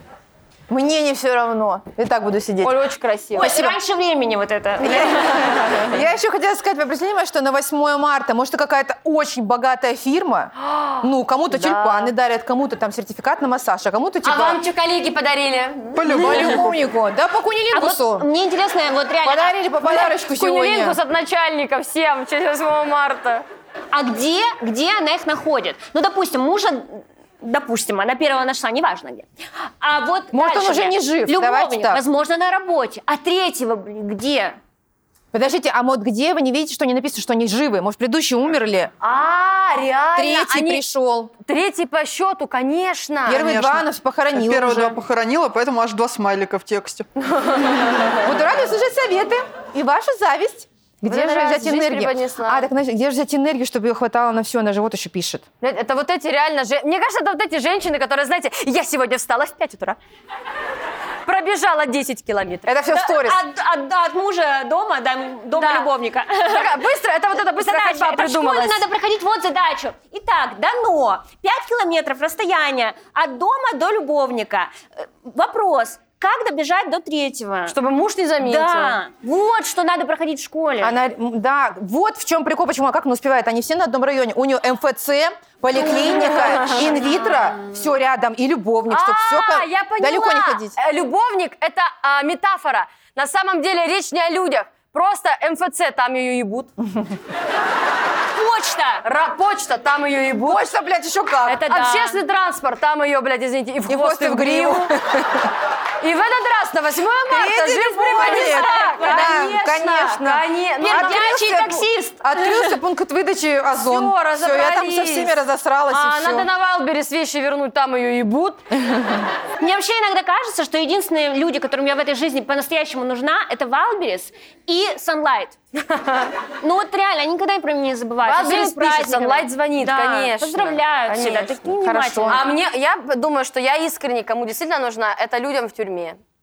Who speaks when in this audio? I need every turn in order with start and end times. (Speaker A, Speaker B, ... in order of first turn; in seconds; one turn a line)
Speaker A: 0.7-2.8
Speaker B: 2.6-3.5
Speaker C: 3.4-5.9
Speaker A: 3.4-3.8
Speaker A: 4.8-14.6
Speaker B: 10.7-12.1
Speaker B: 14.2-16.0
Speaker D: 15.9-16.8
Speaker A: 16.1-18.3
Speaker C: 16.2-16.6
Speaker C: 17.7-19.6
Speaker A: 19.2-21.0
Speaker B: 19.9-23.4
Speaker C: 23.9-29.3
Speaker C: 29.8-34.6
Speaker A: 30.3-32.0
Speaker A: 35.3-38.9
Speaker B: 39.0-40.8
Speaker A: 40.2-41.3
Speaker B: 41.5-43.4
Speaker A: 43.3-45.0
Speaker D: 43.3-47.1
Speaker B: 47.4-48.1
Speaker A: 48.2-55.4
Speaker B: 51.1-52.7
Speaker B: 55.6-60.0
Speaker B: 61.3-62.8
Speaker A: 62.7-63.4
Speaker C: 62.9-66.8
Speaker B: 65.5-65.9
Speaker B: 66.5-68.8
Speaker C: 67.6-77.8
Speaker B: 77.7-79.0
Speaker C: 78.4-81.0
Speaker A: 80.8-90.8
Speaker B: 86.2-86.9
Speaker C: 86.9-87.7
Speaker B: 88.9-96.7
Speaker C: 98.3-99.0
Speaker B: 99.0-100.7
Speaker A: 100.5-101.6
Speaker C: 101.5-102.2
Speaker B: 101.7-104.9
Speaker A: 103.9-105.5
Speaker B: 106.0-111.8
Speaker A: 107.3-116.5
Speaker C: 108.2-109.5
Speaker C: 110.8-112.8
Speaker B: 113.8-118.6
Speaker C: 119.6-125.6
Speaker B: 125.9-126.3
Speaker C: 126.6-132.4
Speaker B: 128.2-131.6
Speaker A: 131.8-132.4
Speaker B: 132.3-136.2